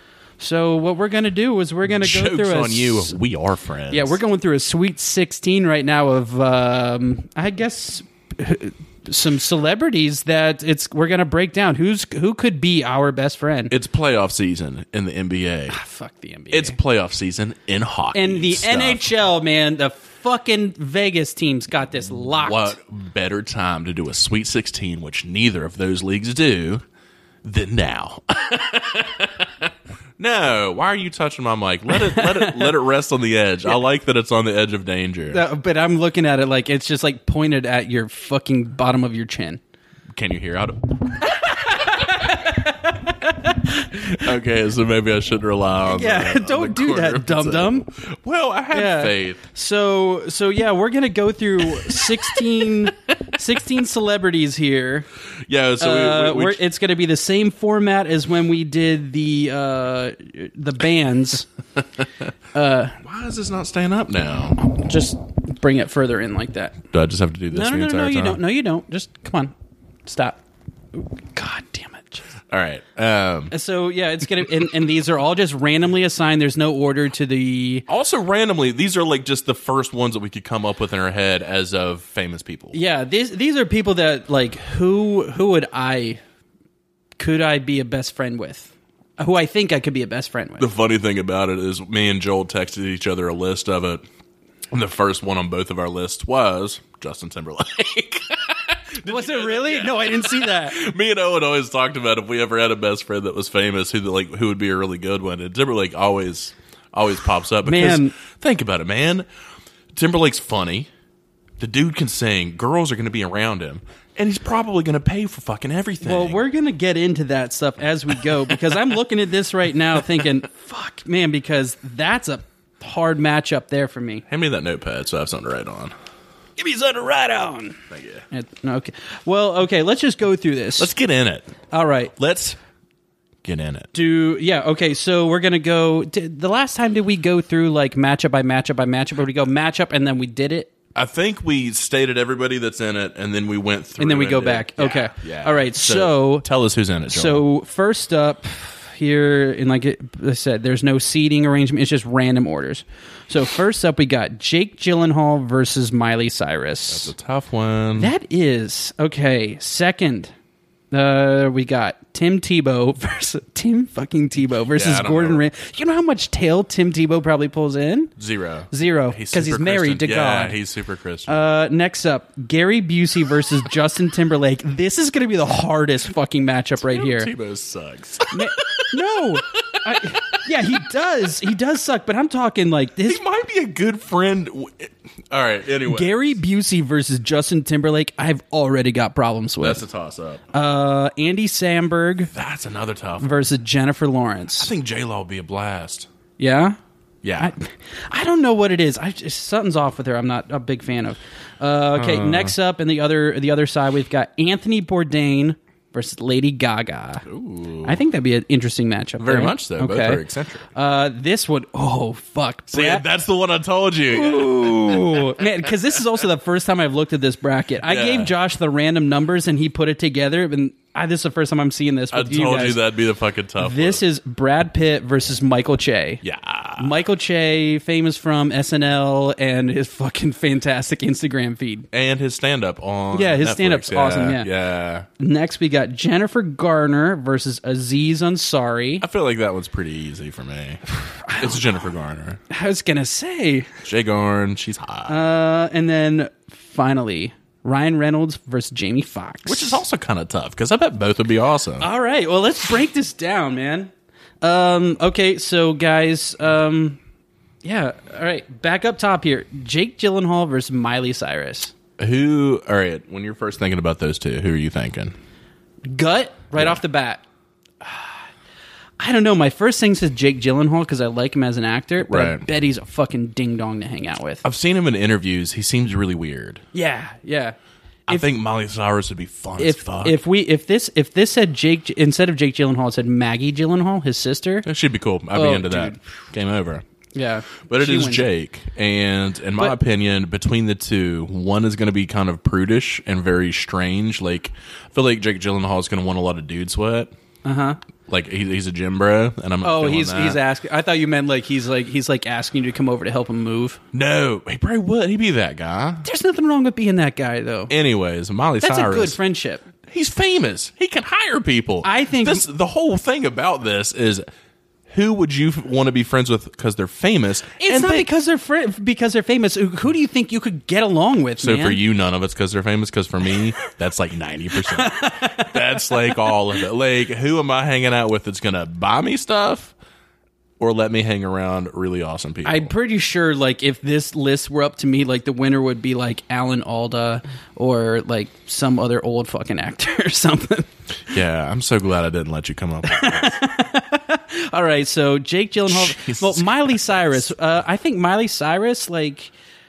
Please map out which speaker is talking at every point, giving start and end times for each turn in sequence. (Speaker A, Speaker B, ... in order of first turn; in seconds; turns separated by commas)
Speaker A: 0.4-3.2, Speaker B: 2.0-4.2, Speaker A: 3.9-13.7, Speaker B: 13.7-15.8, Speaker A: 15.7-16.8, Speaker B: 16.5-19.0, Speaker A: 18.1-22.7, Speaker B: 22.4-26.8, Speaker B: 27.4-35.4, Speaker A: 32.0-32.7, Speaker A: 35.3-39.6, Speaker B: 40.1-41.8, Speaker A: 41.2-44.2, Speaker B: 43.9-49.4, Speaker A: 45.9-47.9, Speaker A: 48.7-55.1, Speaker B: 51.6-52.9, Speaker B: 55.5-56.6, Speaker A: 55.8-61.5, Speaker A: 62.5-63.0, Speaker B: 63.0-64.6, Speaker A: 64.6-66.8, Speaker B: 66.9-68.4, Speaker A: 67.5-69.5, Speaker A: 70.0-70.4, Speaker A: 70.9-72.2, Speaker B: 72.5-73.5, Speaker A: 73.5-77.8, Speaker B: 77.9-82.8, Speaker A: 82.7-86.2, Speaker A: 87.2-90.7, Speaker B: 90.6-94.0, Speaker B: 94.7-109.2, Speaker A: 99.0-100.8, Speaker A: 107.6-108.2, Speaker B: 109.9-110.9, Speaker B: 111.6-116.4, Speaker A: 116.0-124.2, Speaker B: 124.3-125.9, Speaker A: 126.6-130.9, Speaker B: 127.9-128.2, Speaker B: 130.8-131.5, Speaker A: 131.7-132.1, Speaker B: 132.1-132.6, Speaker B: 133.4-133.9, Speaker A: 133.9-140.7, Speaker B: 140.9-147.4, Speaker A: 144.0-146.4, Speaker A: 147.1-157.1, Speaker B: 156.9-158.1, Speaker A: 158.0-160.3, Speaker A: 160.9-168.1, Speaker B: 164.7-165.4, Speaker B: 168.2-171.3, Speaker A: 168.7-170.6, Speaker A: 171.2-177.3, Speaker B: 176.8-178.9, Speaker A: 178.3-183.2, Speaker B: 179.5-180.5, Speaker B: 183.0-186.3, Speaker A: 185.8-189.8, Speaker B: 189.6-190.4, Speaker A: 190.5-192.3, Speaker B: 192.3-193.4, Speaker A: 193.2-194.7, Speaker B: 194.6-196.1, Speaker A: 196.4-196.8, Speaker B: 197.2-197.5, Speaker A: 197.4-207.2, Speaker B: 201.9-202.5, Speaker B: 207.2-208.0, Speaker A: 207.8-213.0, Speaker B: 209.2-210.7, Speaker B: 212.7-215.4, Speaker A: 214.1-222.8, Speaker B: 217.8-218.3, Speaker B: 222.1-224.0, Speaker A: 223.6-226.2, Speaker B: 226.2-226.9, Speaker A: 226.8-231.9, Speaker B: 231.9-235.1, Speaker A: 233.1-234.5, Speaker A: 235.2-239.0, Speaker B: 239.0-240.8, Speaker A: 241.0-241.6, Speaker B: 241.4-242.4, Speaker A: 242.5-243.7, Speaker B: 243.8-245.2, Speaker A: 245.1-249.8, Speaker B: 249.5-251.9, Speaker A: 251.8-257.0, Speaker A: 257.6-261.7, Speaker B: 262.0-265.1, Speaker A: 265.9-267.2, Speaker A: 267.8-268.2, Speaker A: 269.0-274.4, Speaker B: 272.0-272.4, Speaker B: 274.4-276.6, Speaker A: 276.7-277.6, Speaker B: 278.1-280.1, Speaker A: 279.6-284.6, Speaker B: 284.6-286.8, Speaker A: 285.3-286.0, Speaker A: 287.1-288.3, Speaker B: 287.7-297.1, Speaker A: 297.4-297.8, Speaker B: 298.1-300.4, Speaker A: 299.6-303.8, Speaker B: 303.9-306.1, Speaker A: 306.0-307.7, Speaker B: 307.7-309.2, Speaker A: 308.6-309.6, Speaker B: 309.9-314.2, Speaker A: 311.8-312.4, Speaker B: 314.9-318.1, Speaker A: 317.6-321.8, Speaker B: 321.4-329.7, Speaker A: 324.6-326.2, Speaker B: 330.6-332.7, Speaker A: 332.4-340.7, Speaker B: 341.1-343.4, Speaker A: 342.8-349.3, Speaker B: 345.7-347.3